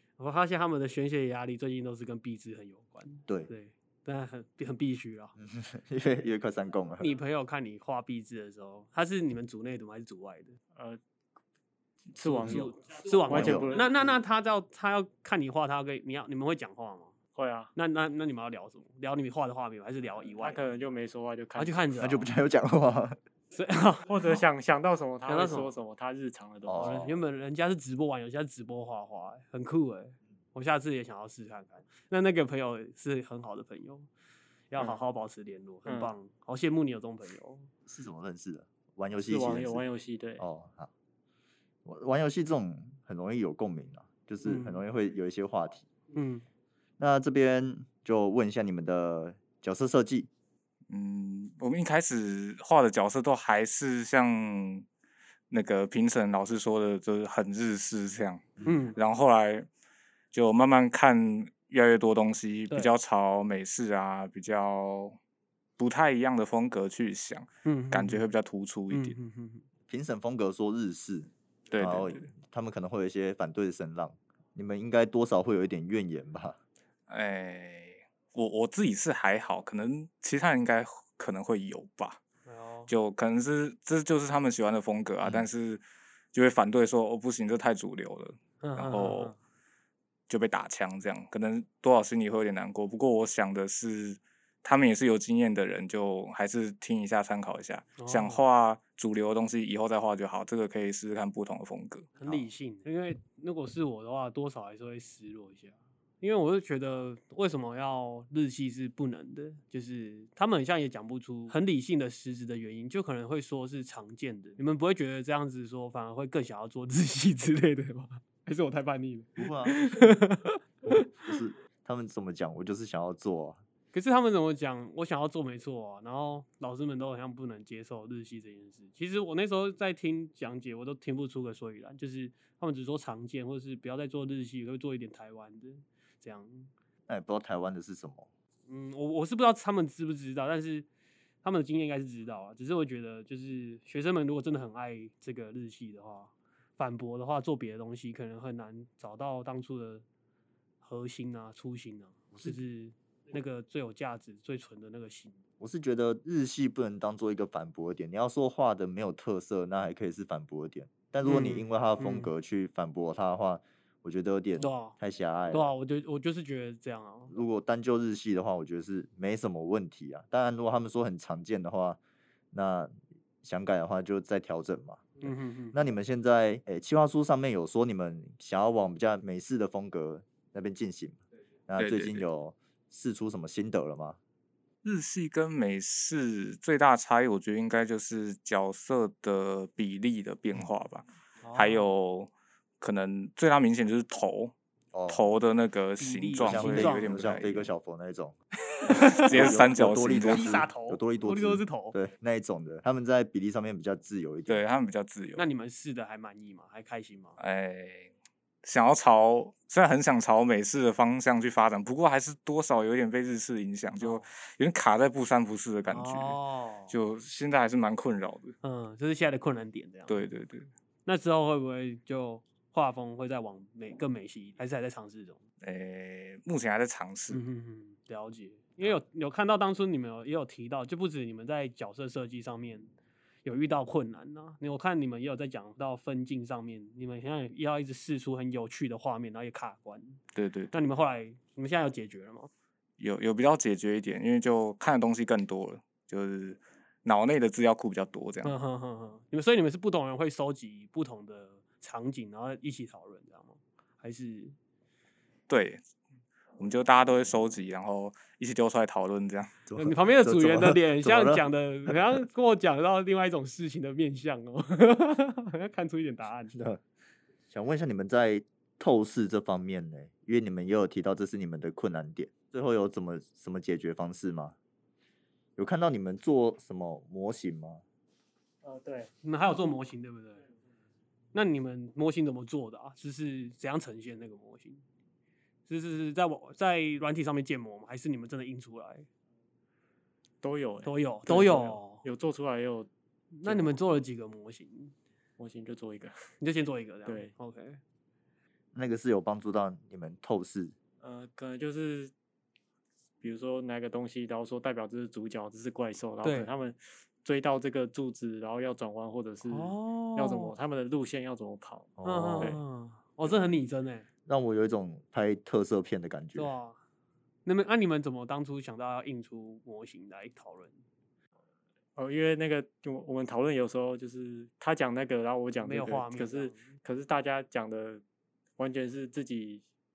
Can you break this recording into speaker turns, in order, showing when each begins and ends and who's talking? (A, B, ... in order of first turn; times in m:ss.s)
0:00.2-0:05.4 A
0:05.4-0:07.1 B
0:07.0-0:10.6 A
0:10.8-0:11.0 C
0:12.1-0:14.2 C
0:12.2-0:17.1 A
0:13.3-0:13.7 B
0:17.4-0:17.7 C
0:17.8-0:20.7 A
0:20.4-0:21.8 C
0:21.6-0:22.3 A
0:22.0-0:23.2 B
0:23.5-0:24.4 A
0:24.1-0:27.0 C
0:25.3-0:25.7 A
0:26.7-0:27.2 B
0:26.8-0:34.1 A
0:34.7-0:37.7 A
0:35.9-0:36.1 C
0:37.9-0:39.8 B
0:39.2-0:40.4 C
0:40.4-0:40.9 B
0:41.8-0:45.9 B
0:44.4-0:44.8 A
0:46.1-0:46.4 A
0:47.0-0:50.3 B
0:50.9-0:54.9 D
0:55.5-0:59.7 D
0:58.6-0:59.0 A
1:00.3-1:05.2 D
1:05.8-1:09.2 D
1:07.6-1:08.2 A
1:08.9-1:09.7 A
1:09.9-1:16.6 B
1:11.7-1:12.3 D
1:17.1-1:22.2 D
1:22.5-1:22.9 A
1:22.9-1:29.3 D
1:25.2-1:25.5 B
1:28.6-1:29.4 A
1:30.3-1:42.1 D
1:38.0-1:38.4 A
1:42.2-2:01.0 A
1:59.4-2:00.1 B
2:00.8-2:03.6 B
2:03.9-2:16.7 A
2:17.1-2:18.3 B
2:18.7-2:20.9 A
2:21.4-2:30.0 A
2:30.8-2:35.4 A
2:35.6-2:45.7 B
2:41.2-2:42.3 A
2:44.6-2:45.0 A
2:45.5-2:47.3 A
2:47.3-2:52.0 B
2:52.5-3:04.2 B
2:55.2-2:55.8 A
3:01.8-3:02.2 D
3:04.8-3:14.5 D
3:11.4-3:11.9 A
3:14.9-3:15.2 B
3:15.1-3:17.7 D
3:16.0-3:17.3 A
3:16.4-3:18.4 B
3:18.7-3:19.6 A
3:18.9-3:24.6 B
3:18.9-3:20.5 D
3:20.3-3:22.0 A
3:24.5-3:25.4 D
3:25.4-3:27.4 A
3:27.4-3:28.1 D
3:28.6-3:36.4 D
3:34.0-3:34.3 A
3:35.9-3:37.0 A
3:36.9-3:38.6 D
3:38.6-3:40.3 A
3:40.1-3:40.7 D
3:41.1-3:45.4 A
3:45.6-3:47.4 D
3:47.3-3:52.9 A
3:53.4-4:00.2 A
4:00.3-4:00.7 D
4:00.7-4:02.5 A
4:03.0-4:08.5 D
4:08.4-4:14.6 A
4:15.5-4:15.8 D
4:16.6-4:19.5 D
4:19.7-4:22.0 B
4:19.8-4:26.6 A
4:26.5-4:26.8 B
4:27.5-4:34.6 B
4:35.6-4:37.8 B
4:38.6-4:39.1 C
4:39.2-4:40.4 A
4:41.3-4:44.8 A
4:45.7-4:49.1 A
4:50.4-4:52.9 C
4:50.8-4:52.0 A
4:53.3-4:54.9 A
4:53.4-4:53.8 C
4:55.4-4:56.2 C
4:56.4-4:57.8 A
4:57.1-4:57.3 C
4:58.7-5:00.7 B
5:01.0-5:02.1 C
5:03.2-5:12.6 C
5:06.2-5:06.5 A
5:09.4-5:10.5 A
5:12.0-5:12.6 B
5:12.0-5:14.1 A
5:14.3-5:16.6 B
5:16.4-5:16.8 A
5:17.5-5:20.8 A
5:22.0-5:28.0 C
5:25.6-5:26.7 A
5:28.6-5:29.6 C